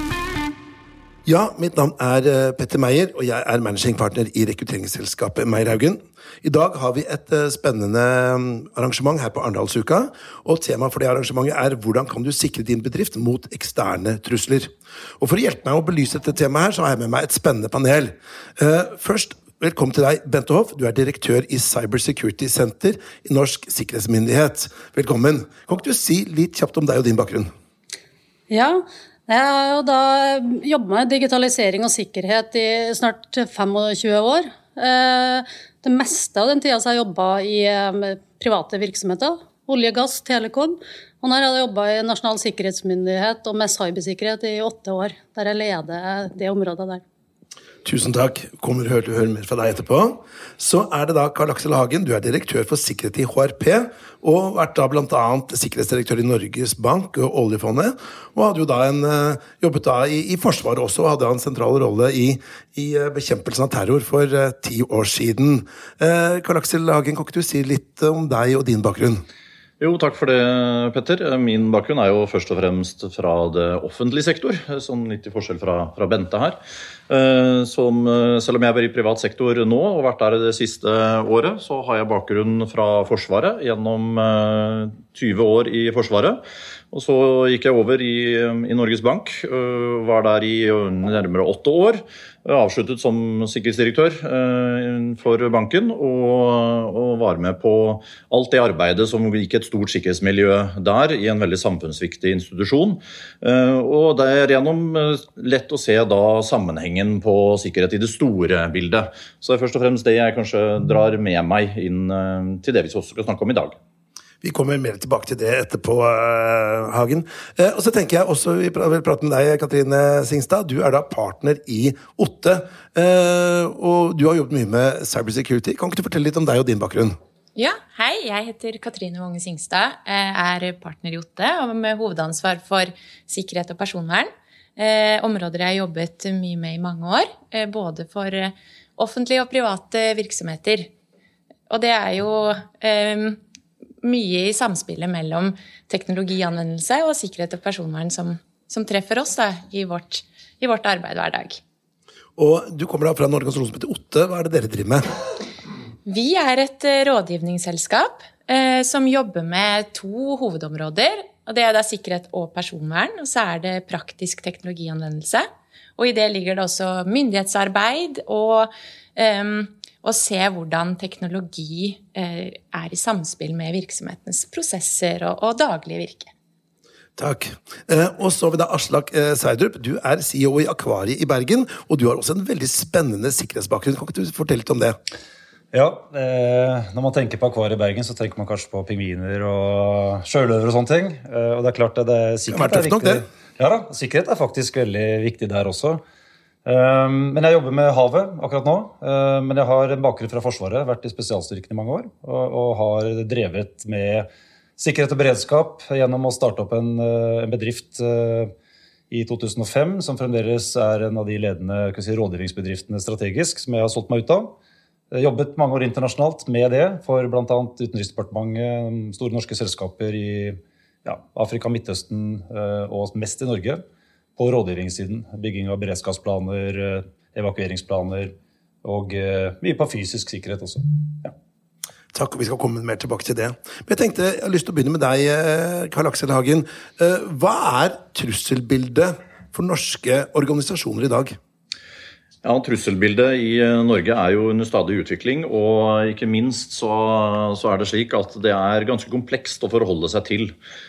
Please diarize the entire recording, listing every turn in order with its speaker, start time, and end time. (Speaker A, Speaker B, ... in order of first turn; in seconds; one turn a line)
Speaker A: 1.2-27.5
Speaker B: 28.5-47.0
Speaker A: 47.8-69.2
Speaker C: 69.8-76.6
Speaker C: 77.1-113.8
Speaker A: 114.4-127.2
Speaker D: 127.5-140.9
Speaker D: 141.7-143.4
Speaker D: 144.0-151.6
Speaker A: 152.4-155.1
Speaker D: 156.1-165.5
Speaker D: 166.0-176.3
Speaker A: 177.2-185.0
Speaker E: 185.7-196.0
Speaker A: 192.5-193.2
Speaker E: 196.7-208.5
Speaker E: 209.1-214.5
Speaker E: 215.1-223.8
Speaker E: 224.4-231.3
Speaker A: 232.1-241.4
Speaker C: 242.4-250.5